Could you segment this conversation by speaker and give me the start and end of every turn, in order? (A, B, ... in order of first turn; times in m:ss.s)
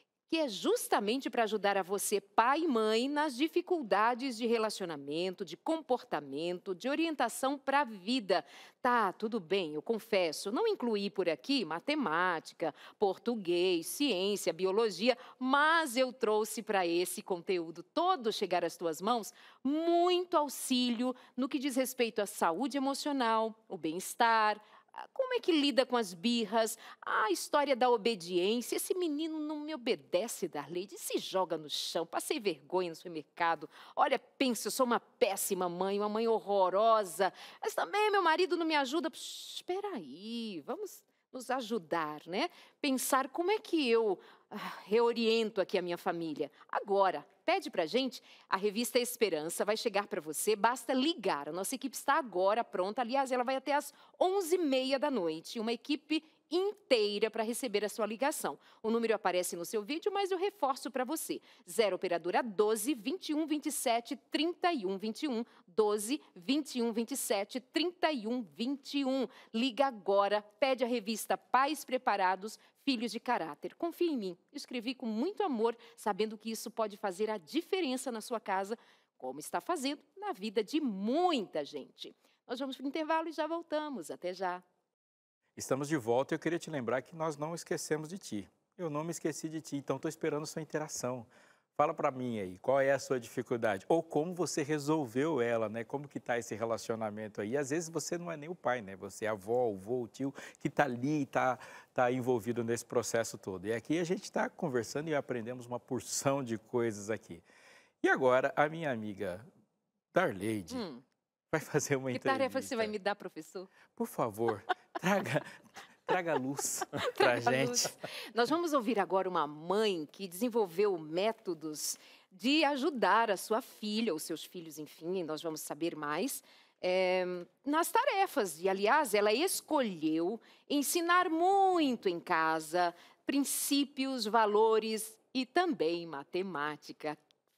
0:00.3-1:24.6 A
1:25.6-1:47.4 B
1:48.0-1:49.5 B
1:50.1-1:50.9 B
1:50.7-1:51.0 A
1:51.5-1:52.9 B
1:52.1-1:53.7 A
1:53.9-1:57.9 B
1:57.0-2:17.2 A